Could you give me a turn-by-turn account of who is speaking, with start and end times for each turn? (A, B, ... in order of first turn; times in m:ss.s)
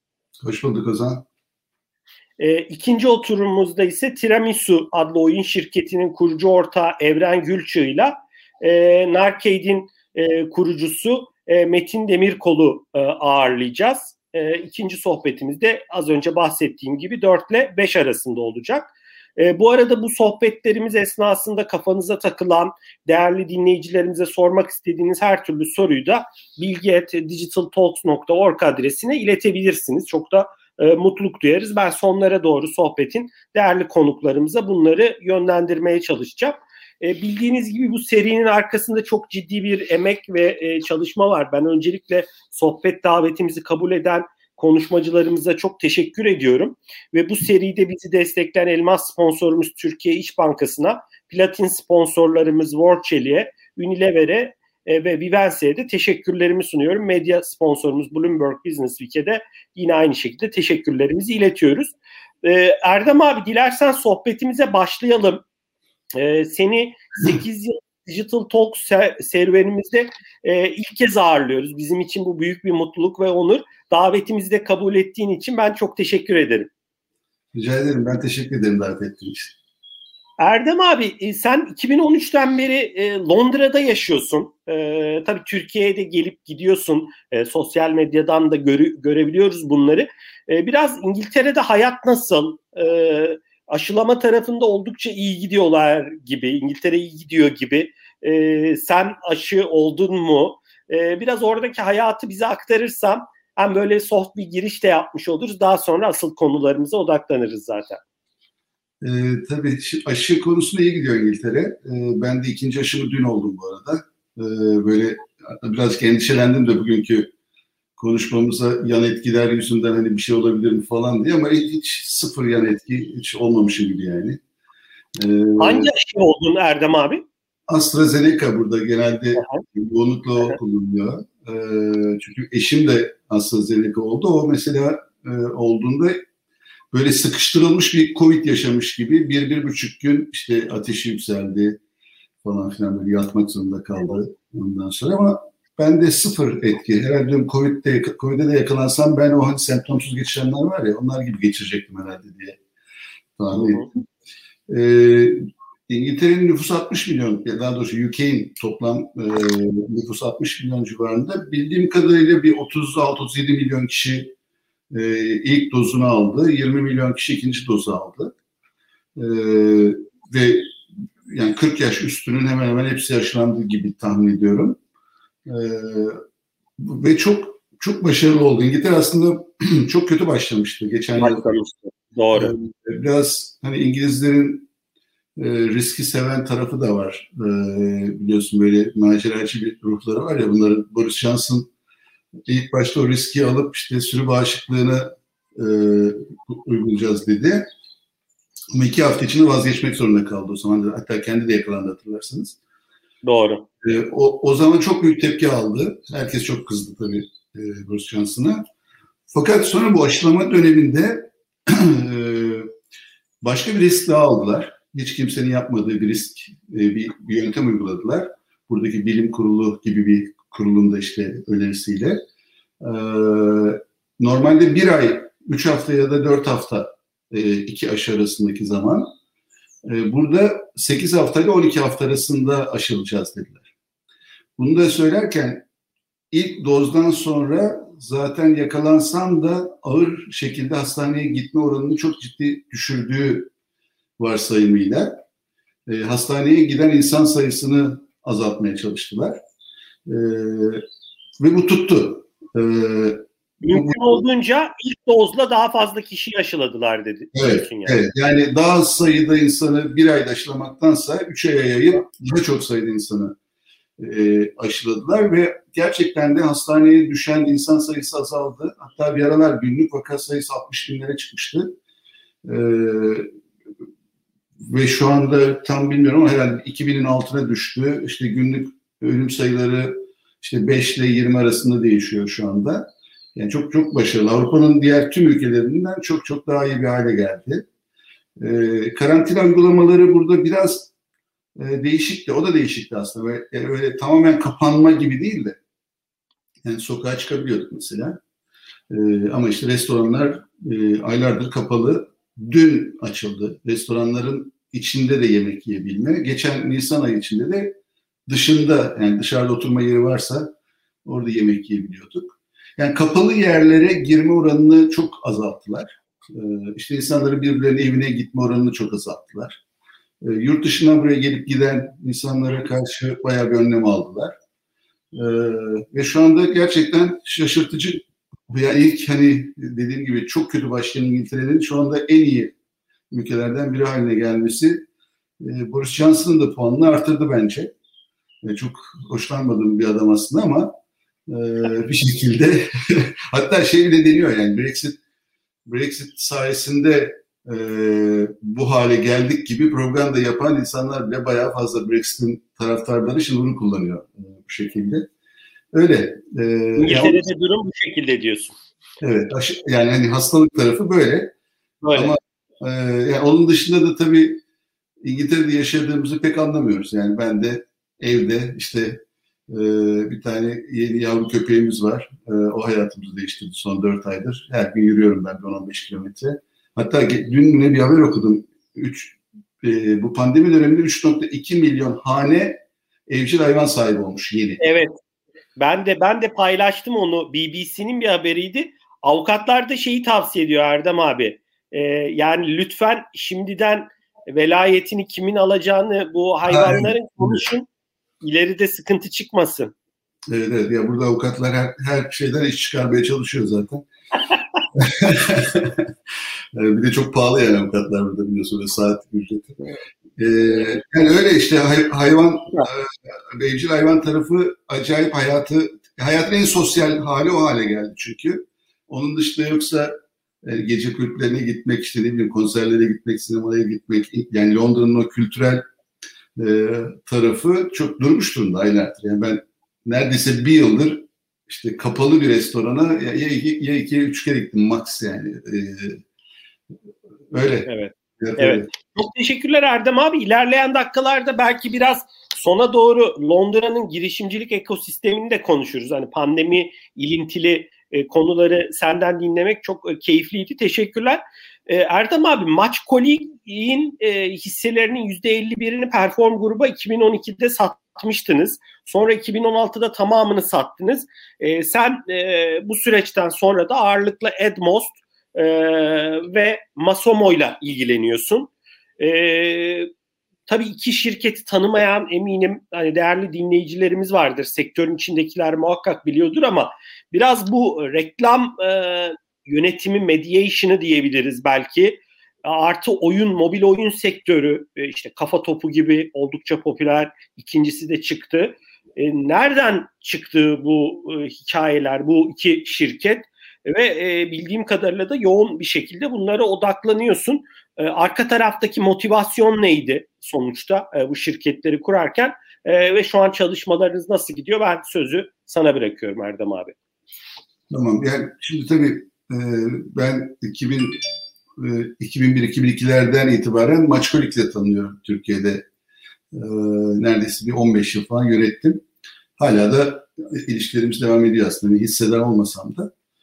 0:00.4-0:01.2 A
0:02.4-1:05.4 B
1:06.1-1:16.7 B
1:17.5-1:19.5 A
1:20.4-1:48.0 B
1:49.0-1:57.3 A
1:58.0-2:04.4 A
2:05.2-2:05.9 A
2:05.6-2:07.2 B
2:07.7-2:16.2 A
2:09.4-2:09.6 B
2:16.9-2:21.8 A
2:22.4-2:32.6 A
2:33.4-2:34.0 A
2:33.5-2:33.9 B
2:34.7-2:44.3 A
2:44.9-2:48.3 A
2:49.2-2:50.7 A
2:51.3-2:54.8 A
2:55.4-2:56.2 A
2:56.8-3:01.4 A
3:01.2-3:02.5 B
3:02.3-3:04.7 A
3:05.4-3:11.7 A
3:12.5-3:17.7 A
3:18.7-3:22.6 A
3:23.2-3:23.7 B
3:23.8-3:28.6 A
3:29.3-3:32.7 A
3:33.4-3:42.2 A
3:42.8-3:49.1 A
3:49.8-3:53.7 A
3:54.6-3:55.6 A
3:56.3-4:03.5 A
4:04.2-4:05.2 A
4:05.9-4:09.4 A
4:10.0-4:10.8 A
4:11.4-4:14.2 A
4:13.6-4:18.0 B
4:17.3-4:23.3 A
4:24.0-4:31.7 A
4:32.4-4:33.3 A
4:34.6-4:47.6 A
4:48.4-4:50.9 A
4:51.6-4:55.6 A
4:56.6-4:58.2 A
4:58.9-5:07.8 A
5:08.3-5:10.5 A
5:11.0-5:19.6 A
5:20.2-5:24.4 A
5:25.1-5:32.5 A
5:33.1-5:34.8 A
5:35.4-5:37.7 A
5:38.4-5:40.7 A
5:41.3-5:45.0 A
5:45.6-5:55.0 A
5:55.7-5:57.2 A
5:56.8-5:58.5 B
5:59.0-6:01.3 A
6:01.8-6:02.1 B
6:01.9-6:04.4 A
6:05.0-6:24.6 A
6:24.6-6:25.0 B
6:25.6-6:37.7 B
6:36.5-6:37.4 A
6:38.2-6:39.7 B
6:40.3-6:43.8 A
6:44.7-6:45.9 A
6:46.5-7:05.6 A
7:06.4-7:16.0 A
7:17.3-7:17.7 A
7:17.6-7:49.9 B
7:18.2-7:18.7 A
7:50.5-8:26.7 B
8:27.7-8:31.0 A
8:31.6-8:35.6 A
8:36.3-8:38.8 A
8:39.4-8:42.9 A